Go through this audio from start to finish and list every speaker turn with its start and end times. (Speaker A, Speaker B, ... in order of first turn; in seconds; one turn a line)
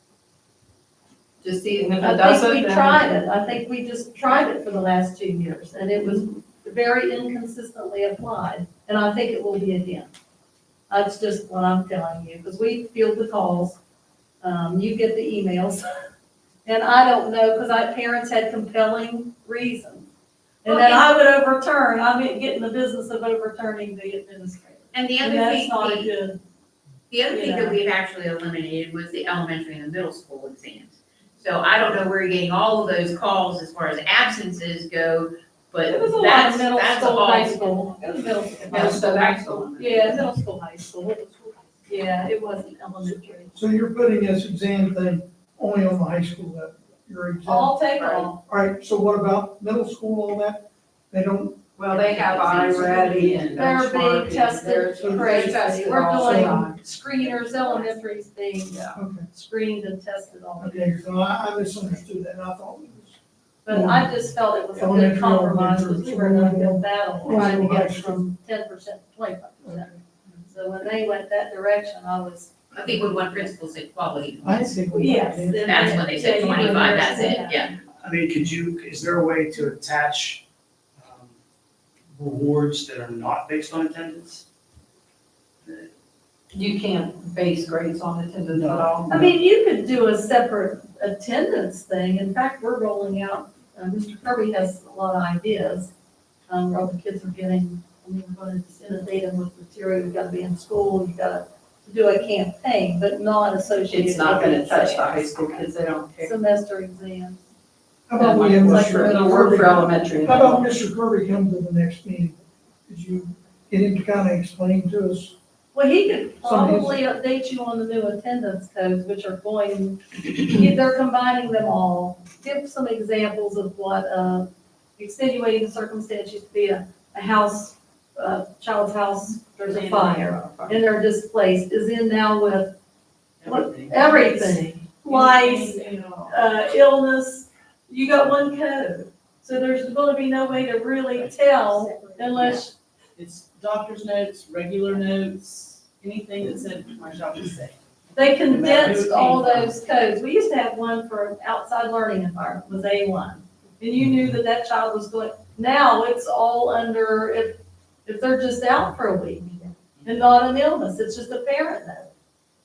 Speaker A: 1.4-3.0
Speaker B: 2.0-10.1
Speaker B: 10.9-13.8
Speaker B: 14.4-15.8
Speaker B: 16.6-20.1
Speaker B: 20.6-26.4
Speaker C: 20.7-21.0
Speaker C: 24.9-26.1
Speaker C: 27.1-37.8
Speaker B: 27.3-27.8
Speaker B: 35.8-43.6
Speaker A: 38.7-40.2
Speaker D: 43.5-47.7
Speaker B: 47.5-48.4
Speaker A: 48.0-48.3
Speaker D: 48.5-51.6
Speaker E: 51.8-53.6
Speaker A: 51.8-56.8
Speaker D: 52.1-52.7
Speaker B: 53.5-61.0
Speaker D: 55.0-56.6
Speaker A: 58.7-59.0
Speaker D: 59.0-59.3
Speaker D: 60.6-64.1
Speaker B: 63.6-72.5
Speaker D: 64.8-68.2
Speaker D: 69.6-70.0
Speaker C: 72.7-74.7
Speaker D: 74.4-76.7
Speaker B: 74.9-77.7
Speaker C: 75.6-77.7
Speaker F: 78.0-80.4
Speaker F: 81.0-81.4
Speaker F: 82.1-84.4
Speaker A: 86.5-89.1
Speaker F: 88.5-89.3
Speaker B: 89.1-95.9
Speaker B: 96.5-105.7
Speaker A: 103.9-106.3
Speaker B: 106.2-107.4
Speaker D: 108.1-115.3
Speaker A: 108.2-110.7
Speaker B: 108.7-109.1
Speaker B: 115.7-132.7
Speaker D: 116.4-117.0
Speaker A: 129.6-130.8
Speaker E: 133.4-134.3
Speaker B: 133.4-142.7
Speaker A: 135.1-136.3
Speaker E: 135.4-136.3
Speaker E: 142.2-142.6
Speaker E: 143.2-149.7
Speaker B: 148.1-162.1